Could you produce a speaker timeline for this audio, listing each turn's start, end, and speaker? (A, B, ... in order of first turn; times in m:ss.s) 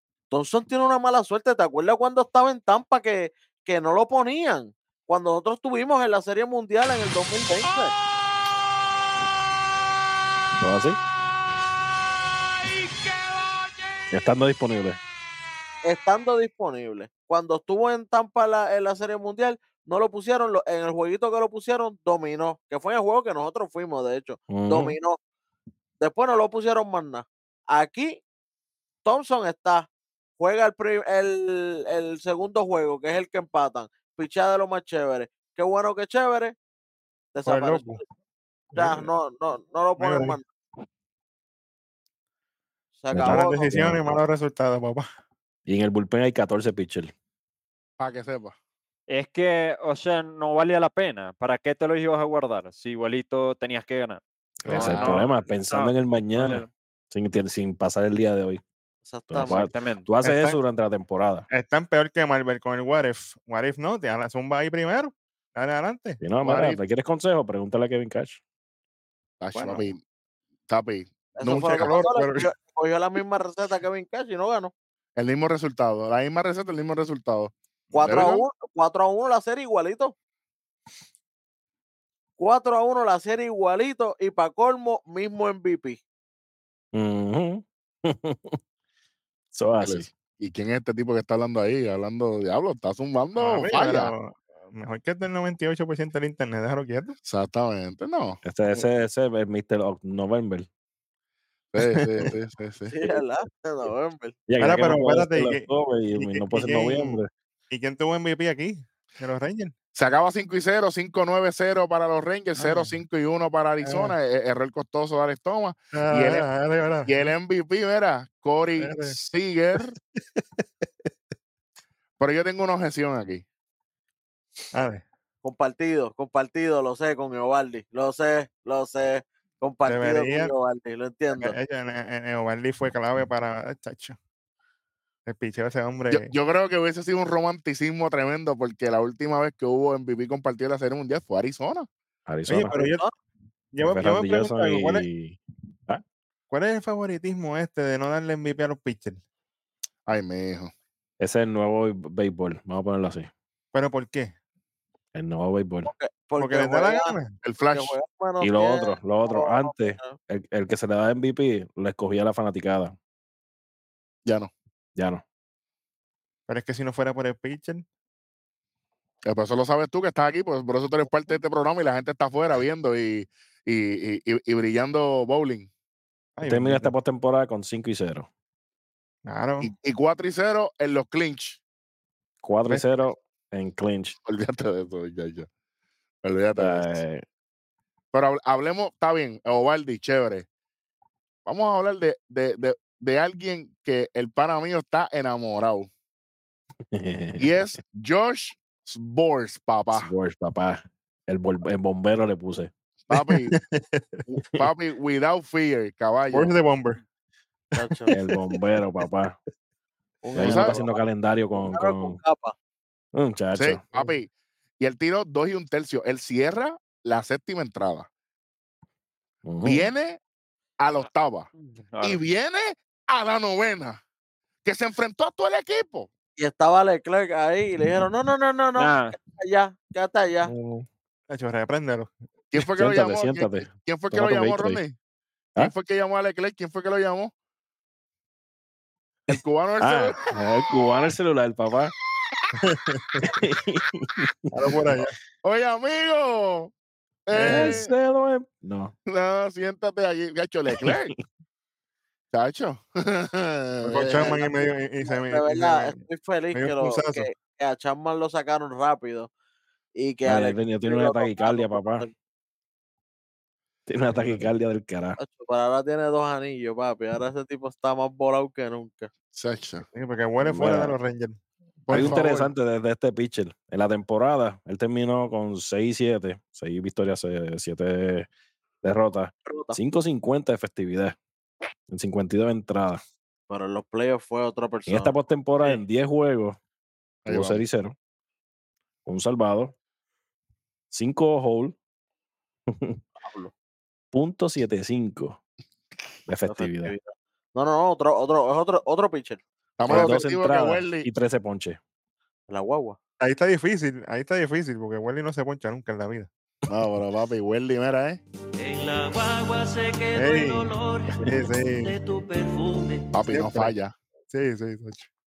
0:00.3-0:07.9 A
0:10.6-0:11.0 B
0:14.1-0:15.0 B
0:15.8-0:25.2 A
0:24.5-0:25.0 B
0:26.0-0:28.2 A
0:29.0-0:29.9 A
0:30.4-0:36.6 A
0:37.3-0:38.0 A
0:37.5-0:38.0 C
0:38.7-0:39.1 C
0:38.7-0:40.5 A
0:40.0-0:40.4 C
0:43.0-0:43.8 A
0:43.1-0:44.2 B
0:43.2-0:45.1 C
0:45.7-0:47.1 B
0:48.0-0:48.6 D
0:49.1-0:54.2 E
0:54.6-0:58.6 B
0:54.7-0:55.3 D
0:54.7-0:56.7 E
0:59.0-0:59.7 A
0:59.3-1:01.5 B
0:59.5-1:00.1 E
1:00.2-1:00.6 C
1:01.5-1:06.2 C
1:06.2-1:08.4 B
1:06.4-1:06.8 D
1:09.4-1:10.0 D
1:09.5-1:09.8 C
1:10.7-1:12.0 D
1:11.4-1:14.7 A
1:11.5-1:12.5 C
1:15.2-1:18.5 D
1:17.9-1:18.2 C
1:17.9-1:20.1 A
1:22.4-1:26.0 A
1:26.9-1:28.6 B
1:29.5-1:30.1 B
1:29.8-1:34.1 D
1:33.4-1:37.2 C
1:37.3-1:38.4 D
1:38.4-1:40.7 B
1:41.7-1:43.1 D
1:41.8-1:42.1 C
1:42.9-1:44.4 A
1:44.5-1:47.3 B
1:44.6-1:49.7 C
1:49.9-1:56.5 D
1:52.6-1:53.0 C
1:53.8-1:54.2 C
1:55.9-1:57.3 C
1:57.0-2:00.0 D
1:58.8-1:59.2 C
2:02.2-2:03.4 D
2:04.7-2:05.0 C
2:05.4-2:11.6 A
2:09.9-2:10.5 C
2:11.4-2:14.2 C
2:15.3-2:16.3 C
2:16.1-2:21.9 D
2:22.3-2:22.8 B
2:22.5-2:23.0 C
2:22.7-2:23.1 A
2:23.7-2:25.1 C
2:23.8-2:26.0 B
2:26.5-2:29.2 C
2:30.1-2:30.7 D
2:31.2-2:33.3 B
2:33.7-2:34.3 C
2:35.1-2:35.9 B
2:35.8-2:40.2 A
2:36.4-2:37.3 C
2:37.4-2:38.0 D
2:38.4-2:43.0 B
2:44.2-2:44.5 D
2:45.0-2:45.2 B
2:46.5-2:47.8 C
2:49.2-2:55.7 D
2:56.4-2:56.9 C
2:56.4-2:58.3 B
2:59.3-2:59.7 C
2:59.6-3:01.6 D
3:02.4-3:04.2 B
3:04.2-3:05.5 D
3:06.2-3:07.0 D
3:06.6-3:07.2 B
3:08.1-3:10.5 D
3:11.4-3:15.9 D
3:16.9-3:17.5 B
3:17.4-3:20.1 D
3:20.0-3:22.7 B
3:23.1-3:23.5 D
3:23.2-3:24.2 C
3:24.3-3:26.6 D
3:26.3-3:27.0 C
3:27.8-3:28.1 A
3:27.8-3:28.6 C
3:28.1-3:29.4 B
3:30.2-3:31.0 A
3:30.4-3:32.2 B
3:30.4-3:30.8 D
3:31.5-3:32.6 A
3:33.1-3:33.8 B
3:33.5-3:38.1 D
3:39.4-3:39.9 B
3:39.6-3:40.2 D
3:40.8-3:41.5 D
3:41.6-3:42.2 E
3:42.0-3:44.0 D
3:44.6-3:46.1 D
3:46.4-3:50.5 A
3:48.8-3:49.2 E
3:50.4-3:50.9 B
3:51.3-3:52.1 C
3:52.5-3:55.0 D
3:52.6-3:54.8 B
3:55.6-3:57.3 D
3:59.3-4:00.2 D
3:59.8-4:01.9 B
4:02.6-4:03.3 C
4:03.2-4:05.0 B
4:04.5-4:05.2 C
4:05.4-4:06.7 D
4:07.3-4:07.9 D
4:07.3-4:08.9 B
4:07.5-4:07.8 C
4:09.1-4:11.1 D
4:12.3-4:14.4 D
4:13.9-4:16.0 C
4:13.9-4:19.3 A
4:16.5-4:17.3 C
4:20.0-4:22.1 A
4:20.3-4:22.1 B
4:23.9-4:25.2 B
4:24.2-4:24.4 C
4:25.2-4:29.1 A
4:29.3-4:29.8 D
4:29.9-4:32.3 C
4:30.4-4:31.0 B
4:31.9-4:32.5 D
4:31.9-4:38.3 B
4:38.8-4:41.2 B
4:39.4-4:39.8 A
4:41.9-4:43.0 B
4:43.5-4:45.8 A
4:44.9-4:46.6 B
4:47.2-4:47.6 D
4:47.3-4:48.0 B
4:49.1-4:49.7 B
4:50.9-4:51.8 B
4:52.7-4:53.0 B
4:53.2-4:53.5 A
4:54.1-4:55.4 B
4:56.3-4:56.9 B
4:56.5-4:59.4 A
4:59.8-5:01.1 D
4:59.9-5:01.8 B
5:02.5-5:03.0 A
5:03.2-5:06.3 C
5:06.7-5:08.2 D
5:08.6-5:13.1 F
5:10.2-5:12.0 C
5:13.1-5:14.0 D
5:13.3-5:13.7 C
5:14.3-5:15.1 C